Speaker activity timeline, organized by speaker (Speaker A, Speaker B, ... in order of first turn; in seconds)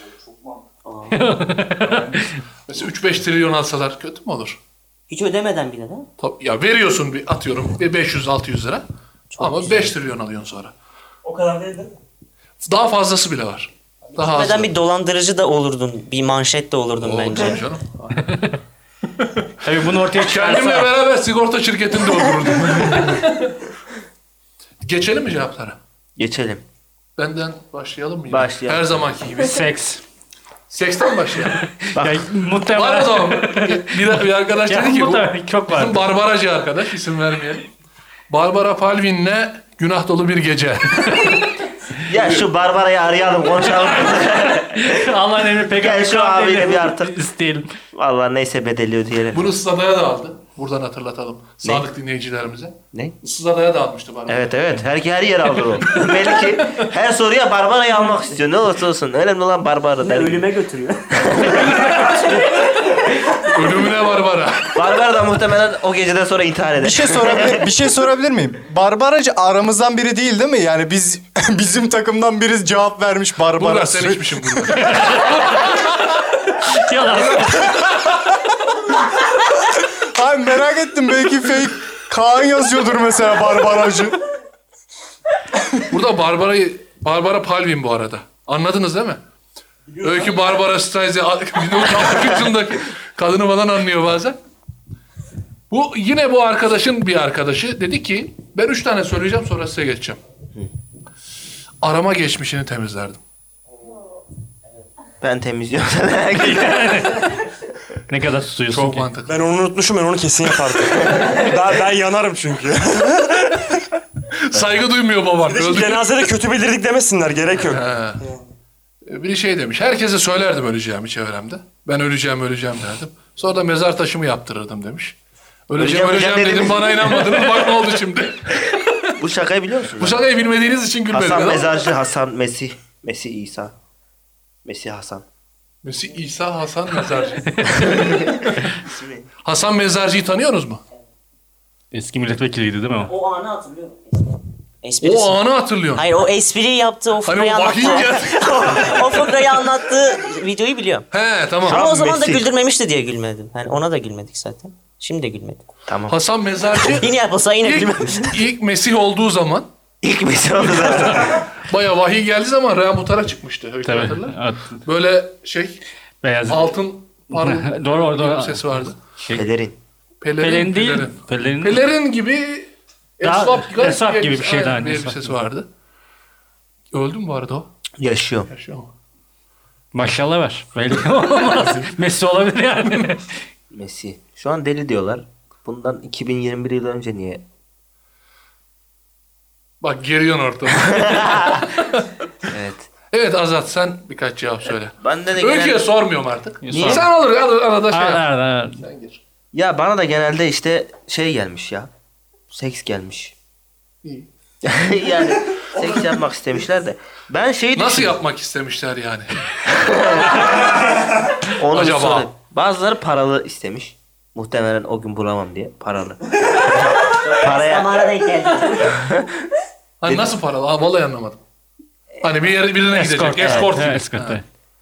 Speaker A: 0.8-1.1, 5.1-6.1, 9.4-9.8, 11.2-11.9, 14.2-17.6, 60.1-62.0, 143.0-144.1, 144.8-145.4, 145.9-151.0, 151.7-155.6, 156.8-158.4, 217.2-218.9
Speaker B: 1.1-2.4, 18.2-18.5, 19.6-20.9, 29.4-30.0, 31.9-34.1, 34.6-36.0, 44.5-47.7, 74.7-75.8, 76.7-77.7, 106.3-107.4, 108.1-109.1, 137.4-137.9, 141.9-143.1, 163.8-164.8, 166.2-166.7, 167.3-169.4, 170.4-171.8, 173.2-175.3, 179.9-183.3, 196.6-197.1, 197.9-198.8, 222.9-224.4
Speaker C: 2.7-4.6, 6.2-8.8, 9.4-10.7, 12.6-14.7, 17.0-18.4, 20.2-23.6, 24.8-25.8, 27.2-29.6, 30.7-31.6, 32.7-37.7, 38.3-41.3, 42.1-42.5, 49.3-54.7, 61.5-62.2, 63.5-64.8, 73.6-75.8, 77.1-77.8, 85.8-89.2, 90.0-94.4, 95.7-100.2, 101.8-103.2, 108.7-109.5, 114.3-116.3, 117.6-118.2, 119.0-125.2, 125.7-128.9, 130.0-131.7, 135.8-138.6, 139.4-140.8, 145.0-146.0, 147.2-148.9, 151.1-151.8, 156.1-159.7, 161.0-165.8, 166.5-169.0, 170.2-175.7, 176.9-177.7, 178.5-178.9, 189.8-192.1, 193.1-198.2, 198.8-199.2, 207.7-209.3, 211.7-212.3, 220.0-221.4, 222.2-224.4
Speaker D: 26.2-26.6, 28.3-29.0, 31.9-32.2, 42.1-45.0, 45.8-47.1, 47.9-49.5, 54.3-60.5, 61.4-61.7, 64.7-67.6, 105.2-107.0, 125.8-127.4, 129.2-130.3, 131.1-133.7, 134.6-135.2, 138.0-139.3, 151.7-152.4, 155.9-156.2, 160.0-161.4, 169.3-169.8, 178.0-178.5, 183.7-187.4, 190.8-191.7, 192.5-192.9, 195.0-195.8, 196.7-197.1, 199.5-201.9, 202.5-203.3, 204.6-208.2, 209.8-218.0, 218.9-219.3
Speaker E: 66.8-74.7, 79.8-84.2
Speaker F: 109.3-113.6, 115.5-118.4